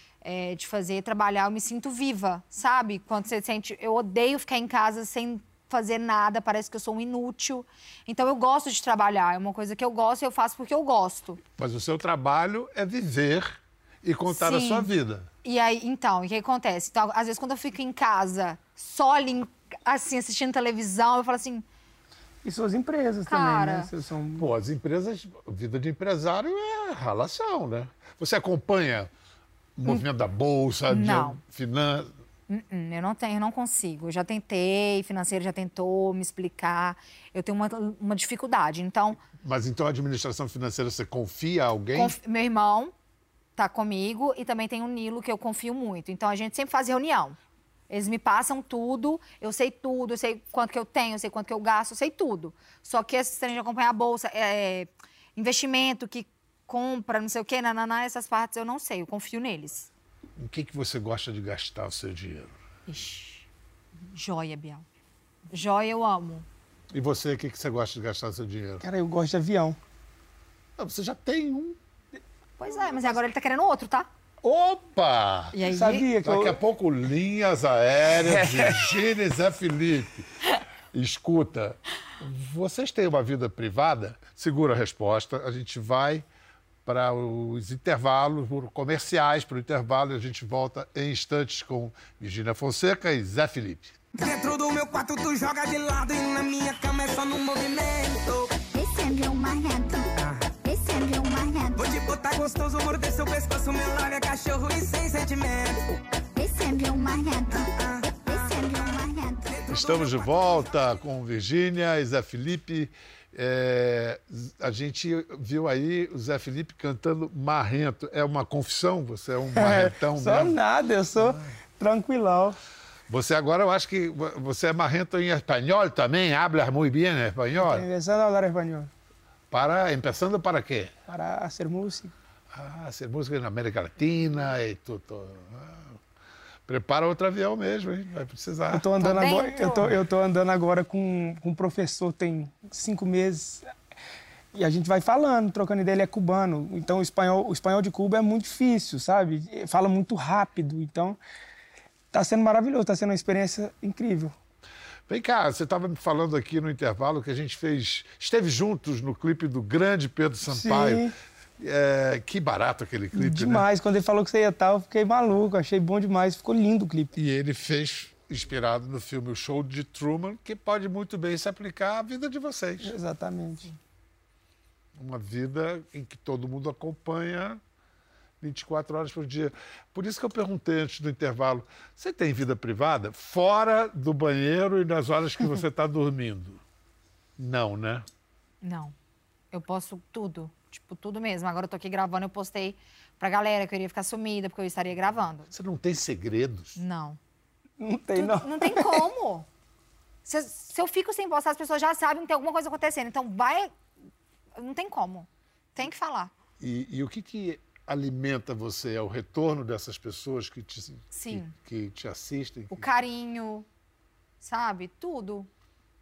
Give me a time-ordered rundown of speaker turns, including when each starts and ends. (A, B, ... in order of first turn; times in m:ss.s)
0:00.2-0:11.4 A
0:11.6-0:15.3 B
0:14.3-0:14.9 A
0:15.4-0:21.6 A
0:22.4-0:24.5 C
0:23.3-0:23.9 A
0:24.4-0:29.1 B
0:29.8-0:32.1 B
0:30.9-0:31.4 A
0:32.5-0:39.2 A
0:39.4-0:42.2 B
0:41.9-0:42.9 A
0:43.6-0:47.4 A
0:47.9-0:59.9 A
1:00.4-1:02.6 B
1:02.9-1:03.5 A
1:04.1-1:04.8 A
1:05.5-1:06.5 A
1:06.9-1:08.8 B
1:08.8-1:09.8 C
1:10.8-1:11.8 B
1:12.6-1:14.1 A
1:14.4-1:15.6 B
1:15.5-1:16.1 A
1:15.6-1:16.6 C
1:16.2-1:20.4 B
1:18.3-1:18.8 C
1:20.9-1:26.2 B
1:26.9-1:34.0 B
1:34.2-1:38.6 D
1:38.7-1:40.1 E
1:40.6-1:42.0 E
1:41.8-1:45.9 D
1:46.4-1:49.6 E
1:47.5-1:48.8 D
1:49.5-1:50.9 D
1:49.7-2:00.6 B
1:59.6-2:02.6 C
2:01.2-2:01.4 B
2:03.1-2:07.9 B
2:07.6-2:08.9 C
2:09.5-2:10.9 B
2:11.1-2:12.1 C
2:12.5-2:16.0 B
2:16.7-2:18.9 B
2:18.7-2:23.6 C
2:19.0-2:19.9 A
2:24.5-2:31.2 C
2:32.1-2:34.4 C
2:35.1-2:43.7 B
2:40.5-2:41.1 C
2:43.2-2:47.1 C
2:47.1-2:53.0 B
2:52.8-2:53.7 C
2:55.0-2:57.6 B
2:58.4-3:06.6 B
3:07.4-3:08.0 B
3:08.6-3:08.9 A
3:09.5-3:15.5 A
3:15.5-3:16.8 B
3:16.8-3:17.2 A
3:17.8-3:19.1 C
3:18.2-3:19.5 A
3:20.2-3:23.7 A
3:24.6-3:26.3 A
3:26.6-3:32.9 B
3:31.1-3:31.5 A
3:32.7-3:33.7 A
3:34.4-3:35.5 A